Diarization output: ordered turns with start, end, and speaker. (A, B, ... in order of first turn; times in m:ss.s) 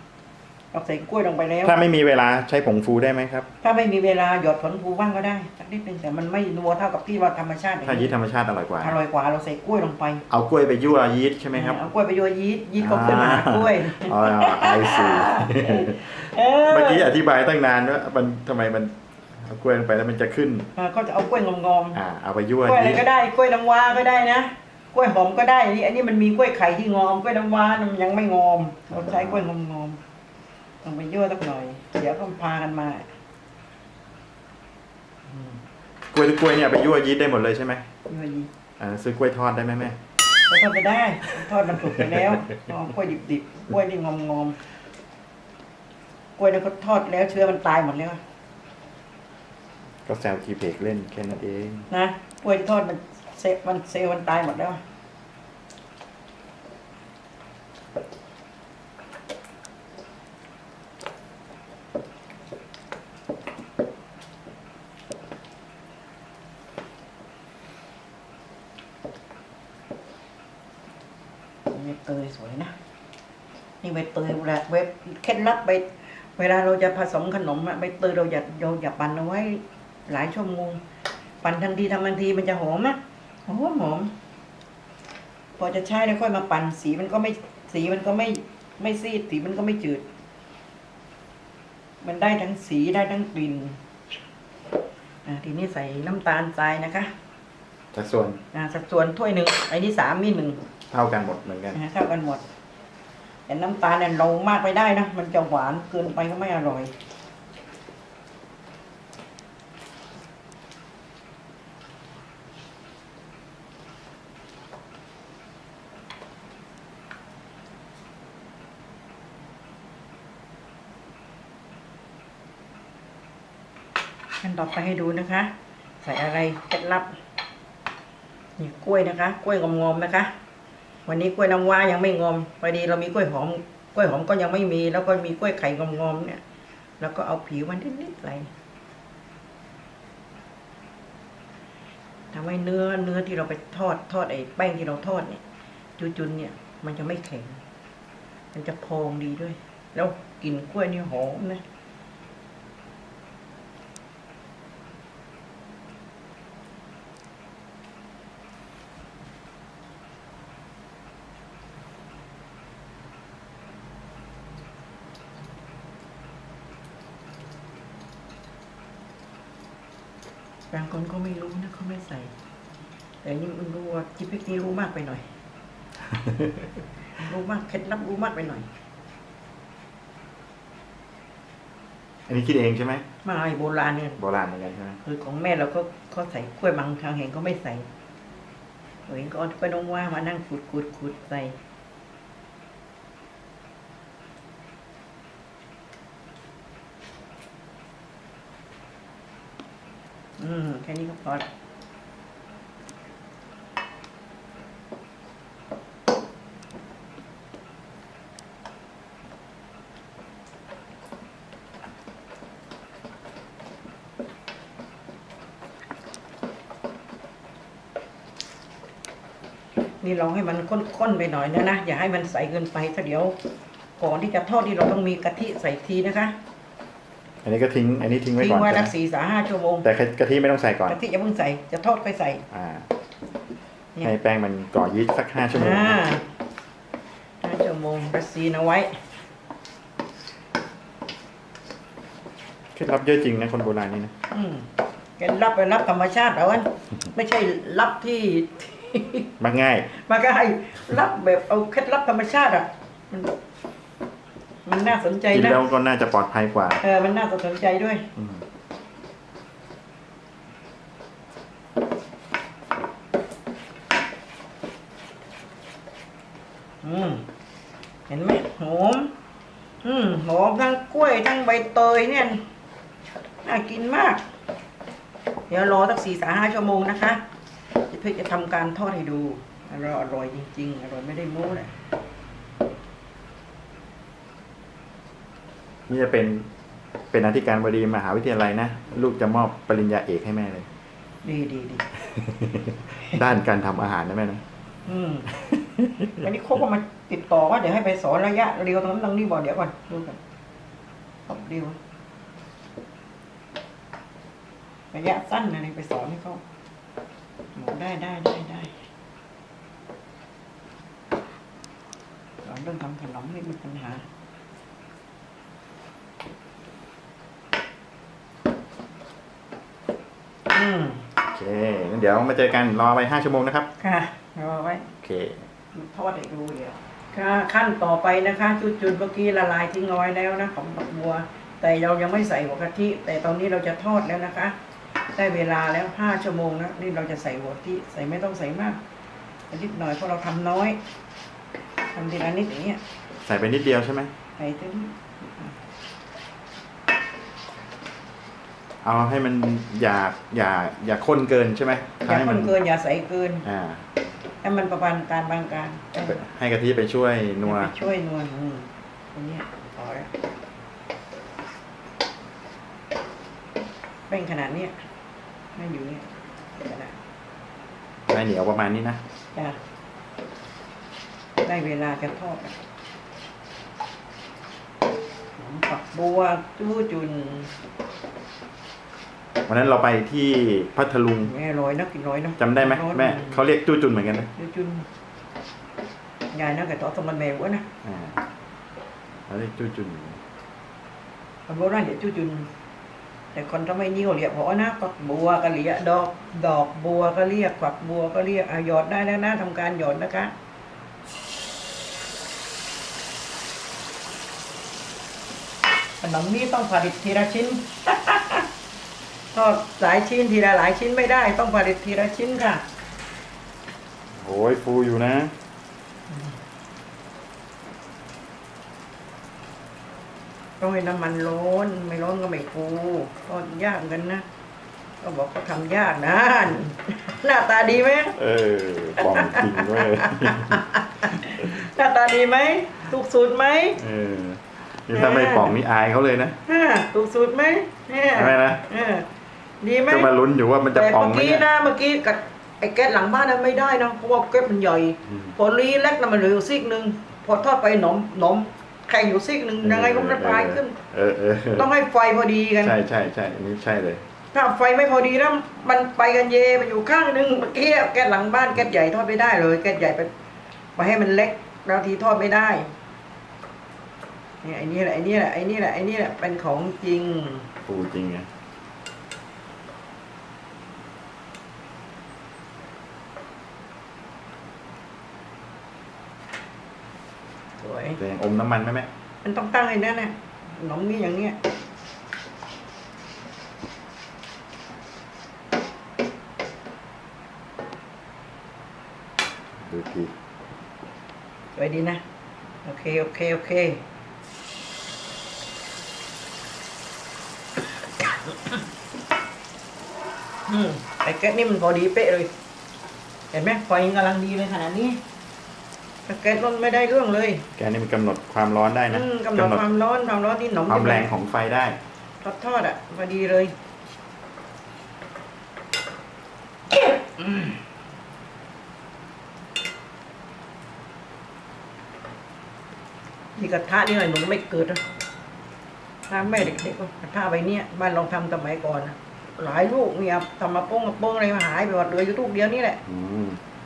0:00.7-0:01.8 A
0:01.6-0:03.5 B
0:03.6-0:08.1 A
0:07.8-0:09.0 B
0:08.8-0:10.2 A
0:10.3-0:11.8 B
0:11.5-0:17.1 A
0:12.8-0:20.7 B
0:20.8-0:22.0 A
0:22.0-0:23.0 B
0:22.6-0:30.0 A
0:28.9-0:29.4 B
0:30.8-0:33.1 A
0:35.3-0:35.6 A
0:36.1-0:37.9 B
0:38.1-0:38.5 A
0:38.8-0:40.0 B
0:40.5-0:44.6 A
0:41.8-0:42.3 B
0:46.4-0:48.2 A
0:50.1-0:51.9 B
0:51.9-0:54.8 A
1:11.7-1:12.7 A
1:13.8-1:20.8 A
1:21.4-1:24.1 A
1:25.6-1:30.0 A
1:32.0-1:33.8 A
1:35.3-1:37.1 A
1:37.9-1:38.4 B
1:38.5-1:40.6 A
1:40.9-1:41.8 B
1:41.7-1:42.4 A
1:43.5-1:46.9 A
2:04.4-2:07.1 A
2:08.6-2:10.3 A
2:11.1-2:16.4 A
2:17.0-2:18.5 A
2:22.3-2:25.4 A
2:26.0-2:27.6 A
2:28.5-2:31.6 A
2:50.7-2:52.3 A
2:53.2-2:55.2 A
2:56.1-2:56.6 B
2:57.2-2:58.7 A
3:02.3-3:03.0 B
3:03.2-3:04.2 A
3:04.2-3:05.0 B
3:05.0-3:07.9 A
3:09.1-3:11.6 A
3:20.4-3:21.5 A
3:40.0-3:43.4 A
3:44.0-3:46.4 A
3:47.4-3:48.9 B
3:48.4-3:49.9 A
3:49.8-3:51.0 B
3:50.9-3:52.5 A
3:52.5-3:52.9 B
3:54.0-3:56.0 B
3:55.5-3:56.2 A
3:57.4-3:59.0 A
4:02.8-4:04.1 B
4:04.3-4:09.3 A
4:09.4-4:09.9 B
4:09.9-4:13.3 A
4:14.6-4:15.6 A
4:15.3-4:16.8 B
4:16.8-4:18.1 A
4:18.2-4:18.4 B
4:26.8-4:27.3 A
4:28.1-4:29.1 A
4:29.8-4:32.4 A
4:33.4-4:34.2 A
4:35.5-4:37.2 A
4:37.9-4:41.7 A
4:45.9-4:46.5 B
4:47.1-4:50.7 B
4:51.2-4:51.9 A
4:52.0-4:54.4 B
4:54.9-4:55.3 A
4:55.4-4:56.2 B
4:56.2-5:00.2 A
5:01.3-5:01.8 A
5:04.9-5:06.4 A
5:07.6-5:08.8 A
5:12.4-5:14.0 A
5:20.5-5:21.1 A
5:21.2-5:23.7 B
5:23.8-5:24.9 A
5:25.0-5:25.4 B
5:25.7-5:34.6 A
5:35.1-5:38.8 A
5:39.5-5:40.8 A
5:41.9-5:42.8 A
5:43.2-5:44.1 B
5:44.4-5:45.6 A
5:48.8-5:52.5 B
5:52.0-5:53.5 A
5:53.4-5:53.9 B
5:54.4-5:56.2 A
5:56.0-5:57.7 B
5:57.4-6:00.1 A
6:04.1-6:04.7 A
6:05.6-6:06.9 A
6:08.1-6:09.0 B
6:11.4-6:12.6 A
6:15.4-6:17.5 A
6:19.4-6:21.3 B
6:21.2-6:23.4 A
6:22.4-6:24.3 B
6:24.4-6:24.9 A
6:26.3-6:27.7 A
6:27.8-6:28.2 B
6:29.3-6:30.2 B
6:31.5-6:32.5 A
6:33.3-6:40.3 A
6:46.0-6:48.5 A
6:49.3-6:52.6 A
6:54.2-6:55.3 B
7:00.6-7:04.2 A
7:05.0-7:08.2 A
7:08.2-7:11.5 B
7:09.0-7:13.8 A
7:13.8-7:16.4 B
7:14.9-7:15.6 A
7:16.5-7:19.1 A
7:18.1-7:18.6 B
7:19.6-7:20.1 A
7:19.9-7:21.5 B
7:20.7-7:30.8 A
7:25.1-7:25.3 B
7:29.6-7:31.7 B
7:31.6-7:32.8 A
7:32.6-7:34.0 B
7:34.3-7:40.1 A
7:40.8-7:42.7 A
7:44.4-7:47.5 A
7:47.7-7:48.3 B
7:57.6-7:58.0 A
7:58.0-7:58.9 B
7:59.2-8:01.4 A
8:09.6-8:10.1 B
8:11.6-8:12.0 A
8:12.6-8:13.8 A
8:20.5-8:22.3 A
8:23.3-8:25.0 A
8:26.1-8:27.5 A
8:27.6-8:29.6 B
8:28.9-8:31.1 A
8:30.7-8:31.8 B
8:32.2-8:33.5 A
8:36.8-8:37.6 A
8:43.4-8:44.8 A
8:46.1-8:52.8 A
8:46.3-8:46.6 B
8:52.8-8:53.4 B